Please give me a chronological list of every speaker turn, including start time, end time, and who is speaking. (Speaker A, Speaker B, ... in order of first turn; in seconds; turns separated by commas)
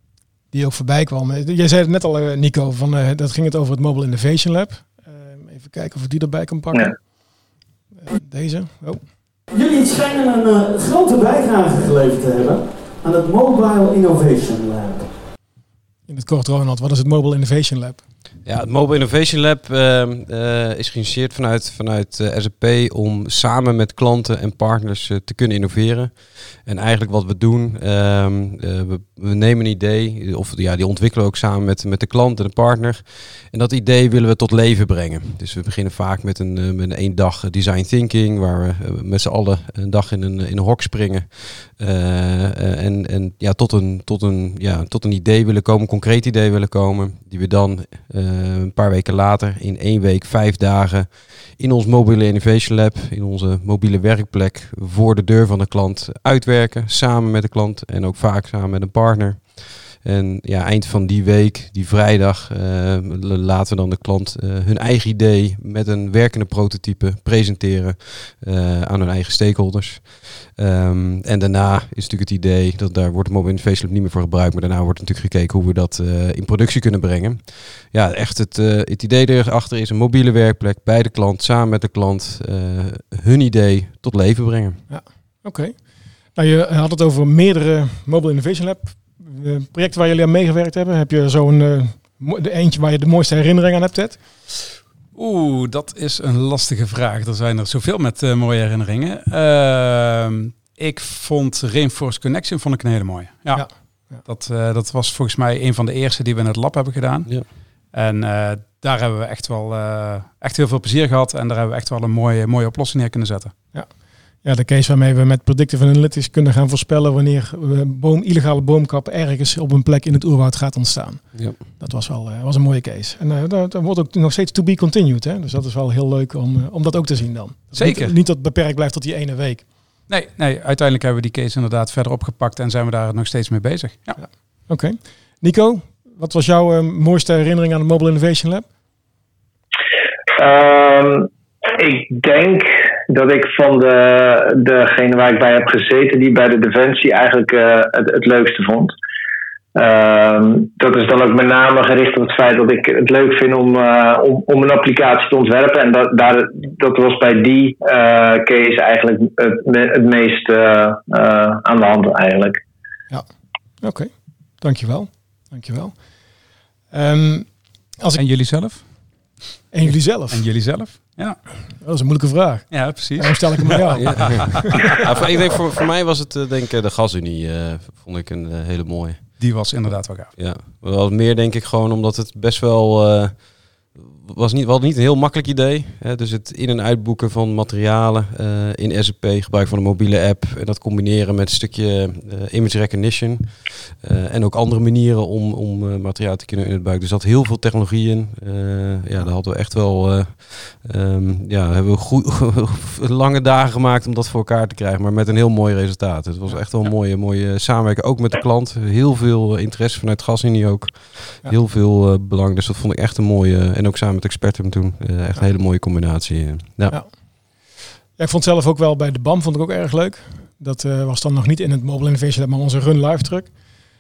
Speaker A: 0.5-7.2, Speaker A: 8.1-9.0, Speaker B: 9.5-15.1, Speaker A: 16.1-18.0, Speaker C: 18.4-84.8, Speaker A: 84.9-85.8, Speaker A: 86.3-94.2, Speaker D: 95.2-113.5, Speaker A: 103.5-104.2, Speaker A: 113.7-129.7, Speaker D: 127.8-128.1, Speaker D: 130.1-134.2, Speaker A: 134.2-138.7, Speaker E: 140.4-148.9, Speaker E: 149.8-162.6, Speaker A: 163.8-166.0, Speaker A: 166.9-168.2, Speaker D: 168.2-168.9, Speaker A: 169.7-170.4, Speaker D: 169.9-171.7, Speaker A: 171.8-174.6, Speaker D: 172.7-174.9, Speaker C: 174.0-179.6, Speaker D: 179.4-180.3, Speaker C: 180.4-217.0, Speaker A: 218.2-223.5